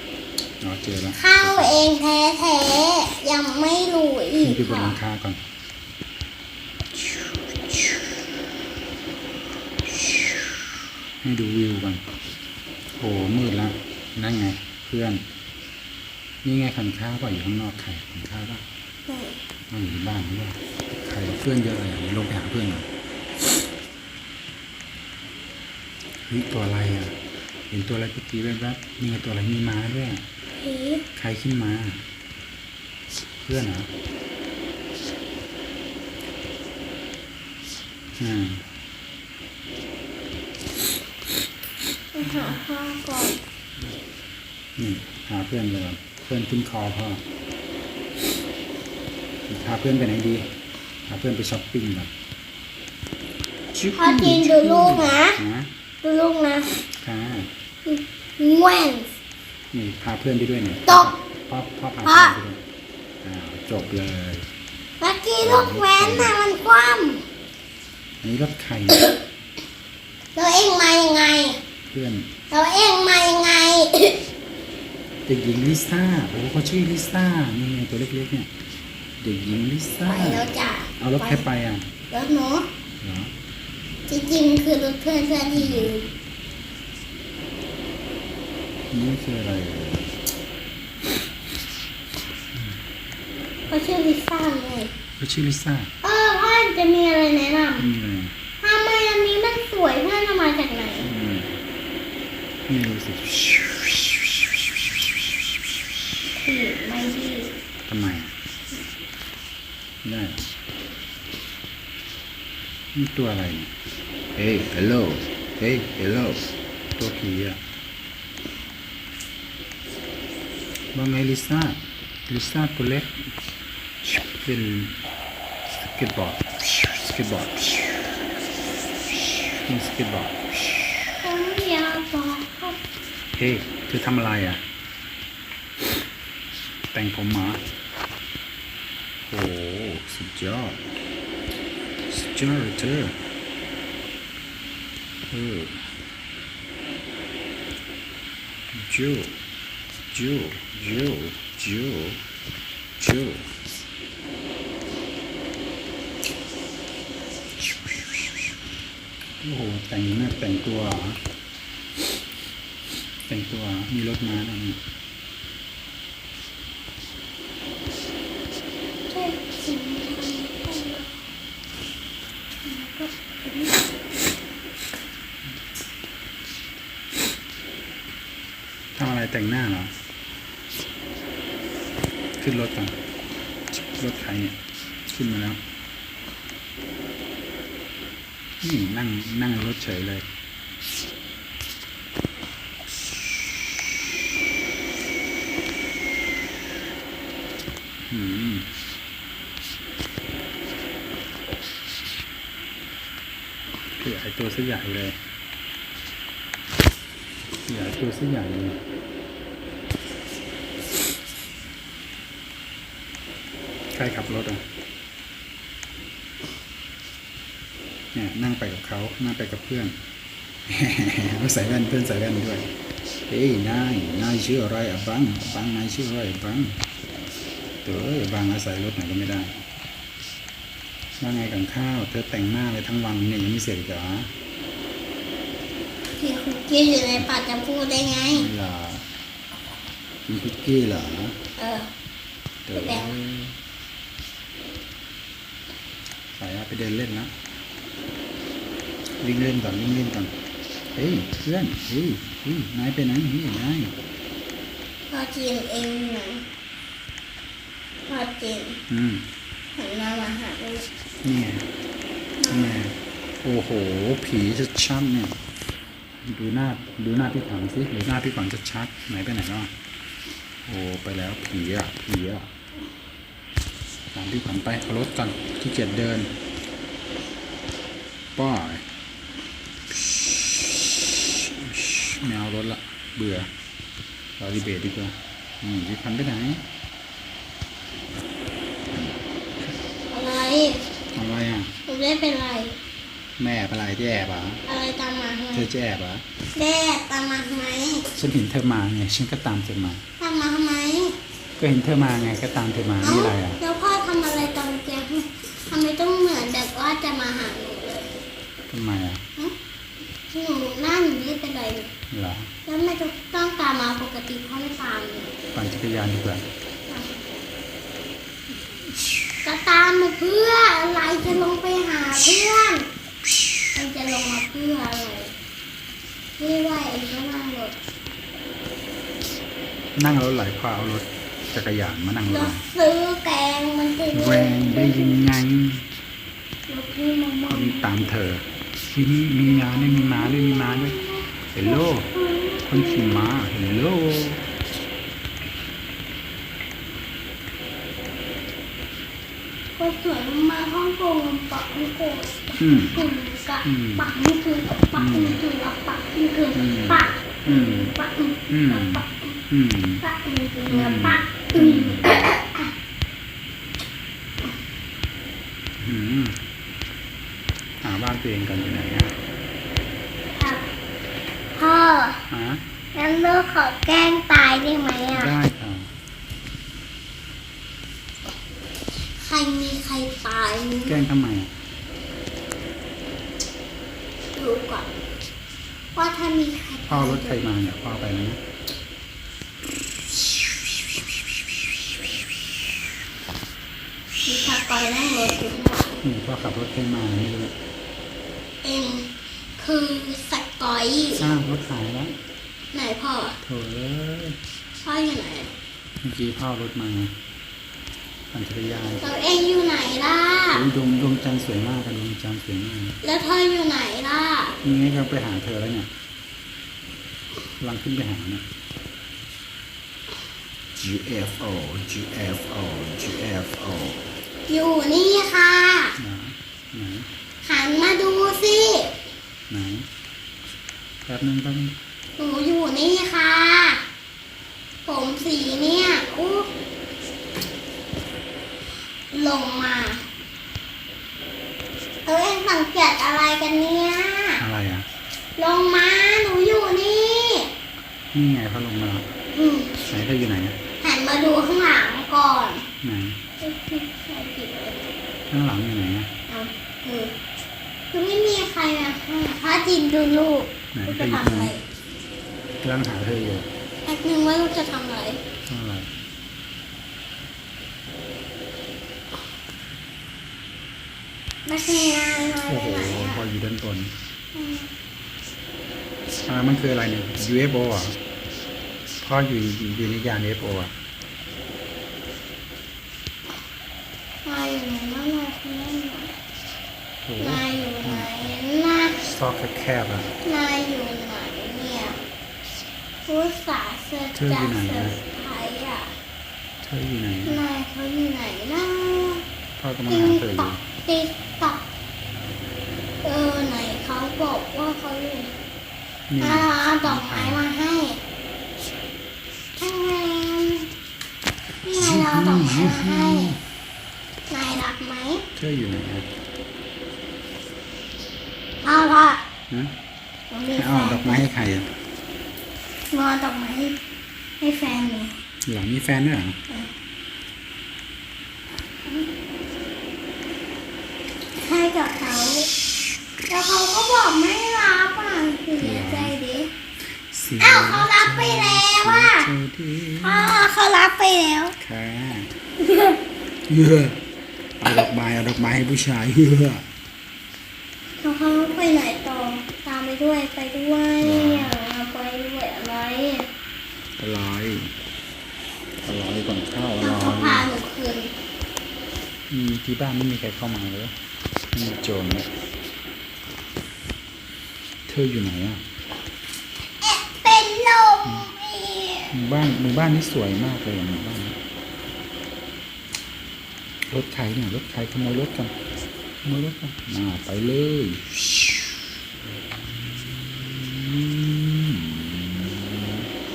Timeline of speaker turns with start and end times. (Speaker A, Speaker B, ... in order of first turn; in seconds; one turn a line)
Speaker A: 0.6-1.8
Speaker B: 1.1-5.0
Speaker A: 4.4-5.4
Speaker A: 11.2-12.0
Speaker A: 13.0-15.2
Speaker A: 16.4-18.6
Speaker B: 19.1-19.4
Speaker A: 19.7-22.9
Speaker A: 26.2-27.1
Speaker A: 27.7-30.2
Speaker B: 30.6-31.0
Speaker A: 31.1-32.0
Speaker A: 33.4-33.9
Speaker A: 38.2-38.7
Speaker B: 42.1-43.4
Speaker A: 44.8-47.2
Speaker A: 49.5-50.5
Speaker A: 51.1-52.1
Speaker A: 53.7-55.7
Speaker B: 54.0-55.4
Speaker B: 56.0-56.8
Speaker A: 57.0-57.5
Speaker B: 57.8-59.1
Speaker A: 59.7-62.6
Speaker B: 60.9-61.1
Speaker B: 62.0-62.3
Speaker A: 63.2-64.5
Speaker B: 65.0-67.2
Speaker A: 65.4-66.4
Speaker A: 68.2-69.1
Speaker B: 70.3-71.6
Speaker A: 71.9-72.3
Speaker B: 72.5-74.2
Speaker A: 75.3-78.5
Speaker A: 79.2-80.4
Speaker B: 80.0-81.4
Speaker A: 81.0-81.9
Speaker B: 82.1-82.7
Speaker A: 83.0-83.3
Speaker B: 84.1-86.1
Speaker A: 85.5-85.9
Speaker A: 88.9-90.1
Speaker B: 93.7-94.9
Speaker A: 95.2-95.9
Speaker B: 96.0-97.9
Speaker A: 97.8-98.3
Speaker B: 98.6-101.1
Speaker A: 101.0-101.5
Speaker A: 102.7-104.3
Speaker B: 106.3-107.5
Speaker A: 107.9-108.3
Speaker A: 110.0-110.5
Speaker A: 112.9-113.7
Speaker A: 114.3-117.6
Speaker A: 120.9-123.2
Speaker A: 124.1-125.0
Speaker A: 125.9-128.1
Speaker A: 129.5-130.5
Speaker B: 131.2-132.8
Speaker A: 133.3-134.6
Speaker A: 136.9-137.6
Speaker A: 139.3-141.0
Speaker A: 142.1-143.2
Speaker A: 145.3-145.9
Speaker A: 148.7-149.4
Speaker A: 150.1-152.2
Speaker A: 153.0-153.5
Speaker A: 159.4-161.2
Speaker A: 163.3-164.8
Speaker B: 169.1-171.1
Speaker B: 172.6-173.8
Speaker A: 178.9-179.9
Speaker A: 182.4-183.0
Speaker A: 183.7-185.6
Speaker A: 188.6-190.2
Speaker A: 198.1-198.7
Speaker A: 204.0-205.2
Speaker A: 207.7-208.8
Speaker A: 213.9-214.6
Speaker A: 218.1-220.0
Speaker A: 220.7-222.7
Speaker A: 223.3-226.8
Speaker A: 227.8-229.6
Speaker A: 231.2-234.3
Speaker B: 236.2-238.5
Speaker A: 238.2-239.1
Speaker A: 240.2-241.3
Speaker B: 241.6-241.9
Speaker A: 242.7-243.6
Speaker B: 242.7-243.1
Speaker A: 246.3-247.3
Speaker A: 249.2-250.3
Speaker A: 250.9-253.9
Speaker B: 255.1-256.4
Speaker B: 258.1-258.8
Speaker A: 258.9-259.2
Speaker B: 259.8-260.9
Speaker A: 261.2-261.7
Speaker B: 262.4-262.8
Speaker A: 262.5-265.4
Speaker A: 266.2-269.7
Speaker A: 270.6-272.5
Speaker A: 274.1-276.3
Speaker A: 278.4-278.9
Speaker A: 279.9-283.5
Speaker A: 284.4-286.6
Speaker A: 288.9-289.7
Speaker B: 290.1-290.9
Speaker A: 291.1-291.7
Speaker B: 291.9-292.8
Speaker A: 293.4-294.6
Speaker B: 294.6-295.7
Speaker A: 295.5-296.2
Speaker B: 296.5-298.1
Speaker A: 298.1-300.0
Speaker B: 300.2-301.2
Speaker A: 301.6-303.6
Speaker B: 303.0-308.1
Speaker A: 308.7-309.2
Speaker B: 310.3-311.9
Speaker A: 312.1-312.5
Speaker B: 312.6-315.3
Speaker A: 315.5-316.4
Speaker B: 316.9-317.2
Speaker B: 319.4-322.9
Speaker B: 323.7-325.3
Speaker B: 326.4-327.8
Speaker A: 329.9-332.6
Speaker B: 332.3-335.2
Speaker A: 334.1-335.9
Speaker B: 336.7-338.1
Speaker A: 337.5-340.9
Speaker B: 339.4-343.1
Speaker A: 341.5-342.1
Speaker A: 342.7-344.4
Speaker B: 349.8-359.3
Speaker A: 352.6-353.0
Speaker A: 353.6-354.1
Speaker A: 354.9-355.4
Speaker A: 356.5-358.0
Speaker A: 358.5-360.0
Speaker B: 360.0-362.7
Speaker A: 360.7-362.3
Speaker A: 365.8-366.4
Speaker A: 367.8-369.2
Speaker B: 370.3-370.6
Speaker B: 371.5-372.2
Speaker A: 372.3-372.6
Speaker B: 372.9-375.3
Speaker A: 375.1-375.9
Speaker B: 379.2-381.0
Speaker A: 380.9-381.5
Speaker B: 384.3-384.9
Speaker B: 385.9-387.4
Speaker A: 386.9-388.4
Speaker B: 394.2-396.0
Speaker A: 396.0-397.5
Speaker B: 398.6-401.3
Speaker A: 401.1-402.1
Speaker B: 402.7-403.4
Speaker A: 403.4-404.4
Speaker B: 404.8-405.5
Speaker A: 406.0-407.1
Speaker A: 408.3-409.1
Speaker B: 409.0-410.6
Speaker A: 410.5-413.0
Speaker B: 413.0-414.6
Speaker A: 414.6-415.9
Speaker A: 417.6-418.4
Speaker A: 420.8-424.1
Speaker B: 424.5-425.9
Speaker A: 426.0-427.1
Speaker B: 427.4-428.9
Speaker A: 429.5-429.9
Speaker A: 431.0-431.8
Speaker B: 432.2-433.8
Speaker B: 434.9-436.5
Speaker B: 439.1-440.0
Speaker B: 442.1-444.4
Speaker A: 444.4-444.9
Speaker B: 445.4-447.5
Speaker A: 448.1-449.1
Speaker B: 449.3-449.8
Speaker A: 449.9-450.6
Speaker B: 450.8-452.6
Speaker A: 452.8-453.2
Speaker B: 453.4-454.9
Speaker A: 455.3-456.1
Speaker B: 456.3-457.1
Speaker B: 457.9-461.6
Speaker A: 460.7-461.5
Speaker A: 462.6-463.5
Speaker B: 463.9-465.2
Speaker A: 465.5-465.9
Speaker B: 471.4-473.2
Speaker A: 472.5-473.9
Speaker B: 474.3-474.7
Speaker A: 476.3-478.0
Speaker A: 479.0-480.7
Speaker B: 484.2-486.1
Speaker A: 487.1-488.3
Speaker B: 487.2-489.0
Speaker A: 489.0-490.1
Speaker B: 490.2-492.0
Speaker B: 493.1-495.9
Speaker A: 494.1-495.0
Speaker A: 496.6-497.4
Speaker B: 497.2-499.2
Speaker A: 499.6-500.6
Speaker B: 499.9-501.6
Speaker B: 503.0-505.3
Speaker A: 506.1-507.4
Speaker B: 506.2-508.0
Speaker B: 509.6-510.7
Speaker B: 511.6-513.3
Speaker A: 511.8-513.4
Speaker B: 514.3-515.2
Speaker A: 515.3-516.1
Speaker B: 518.6-519.2
Speaker B: 520.3-521.2
Speaker A: 520.5-521.7
Speaker B: 522.9-523.8
Speaker B: 524.4-525.1
Speaker A: 525.5-526.4
Speaker B: 531.4-532.5
Speaker B: 533.3-536.5
Speaker A: 535.6-536.1
Speaker A: 536.9-540.4
Speaker B: 537.4-539.3
Speaker B: 540.0-541.5
Speaker A: 541.6-542.3
Speaker B: 542.6-543.0
Speaker A: 543.5-544.0
Speaker A: 544.6-546.6
Speaker B: 548.0-553.3
Speaker A: 551.0-551.5
Speaker A: 554.0-554.7
Speaker A: 555.8-557.5
Speaker B: 556.8-558.1
Speaker A: 559.3-560.9
Speaker A: 561.5-562.3
Speaker A: 564.9-565.6
Speaker B: 566.8-569.1
Speaker A: 568.0-568.3
Speaker A: 569.1-571.4
Speaker A: 573.9-575.5
Speaker A: 576.2-578.8
Speaker A: 579.3-583.1